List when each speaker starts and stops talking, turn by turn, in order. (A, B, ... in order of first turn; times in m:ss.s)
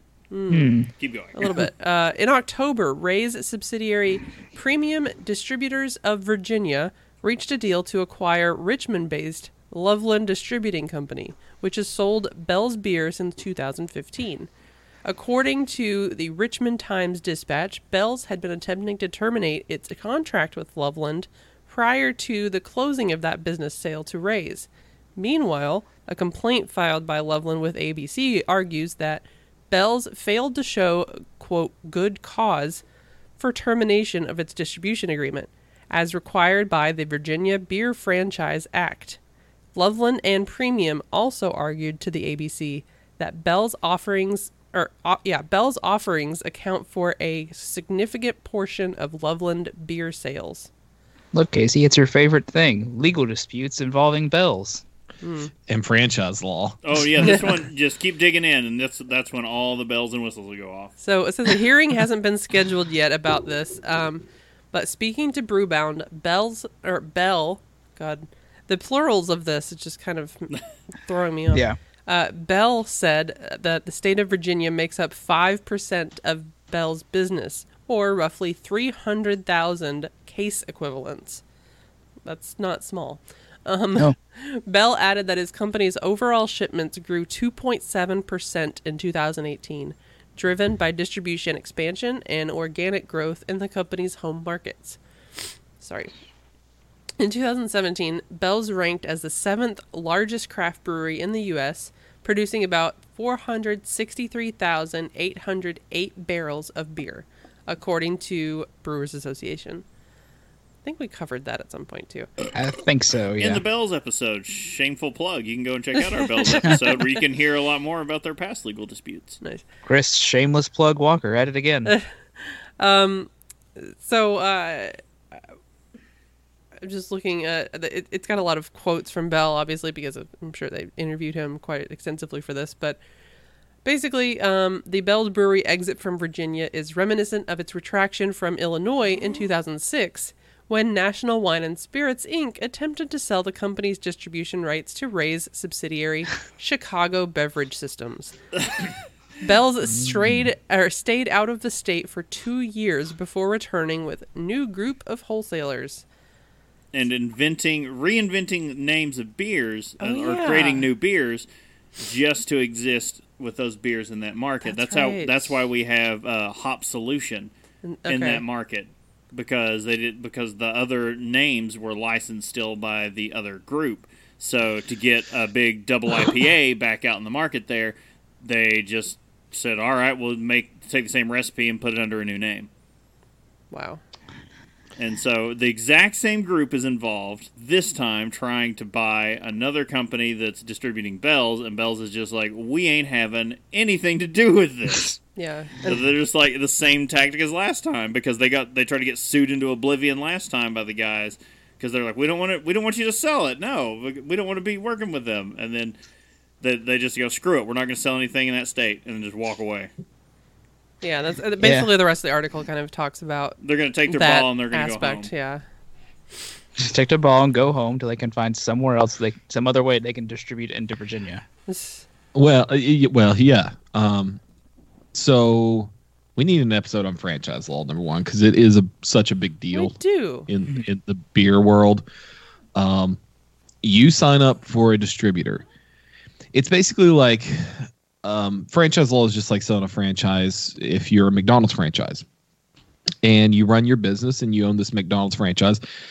0:00.3-0:00.8 A
0:00.5-0:00.9 B
0:01.0-0:01.4 C
0:01.3-0:14.5 A
0:15.0-0:32.8 A
0:33.4-0:39.2 A
0:39.7-0:50.7 A
0:51.3-0:54.8 B
0:55.2-0:55.5 A
0:55.7-0:57.3 D
0:56.8-1:00.9 C
1:01.0-1:21.4 A
1:11.5-1:11.8 B
1:22.2-1:36.1 A
1:37.2-1:49.8 A
1:50.8-1:52.3 A
1:52.5-1:53.6 B
1:53.4-1:59.4 C
1:56.0-1:56.8 A
1:59.8-2:01.9 B
2:01.8-2:05.4 A
2:06.8-2:13.0 A
2:13.8-2:28.4 A
2:29.4-2:36.0 A
2:29.9-2:30.4 B
2:36.9-2:41.4 C
2:40.0-2:40.9 A
2:42.0-2:47.5 C
2:44.6-2:45.5 A
2:47.8-2:48.4 A
2:48.1-3:02.7 C
3:03.7-3:04.0 A
3:05.0-3:15.2 C
3:15.4-3:15.9 A
3:15.8-3:26.0 C
3:26.6-3:29.9 C
3:31.0-3:33.6 A
3:31.6-3:31.9 B
3:33.6-3:35.3 C
3:34.1-3:35.6 A
3:36.8-3:41.4 B
3:41.7-3:42.0 A
3:42.3-3:44.4 D
3:45.1-3:52.0 D
3:49.7-3:50.5 A
3:52.7-3:53.2 D
3:53.8-3:55.6 D
3:56.5-4:02.2 D
4:03.2-4:05.8 D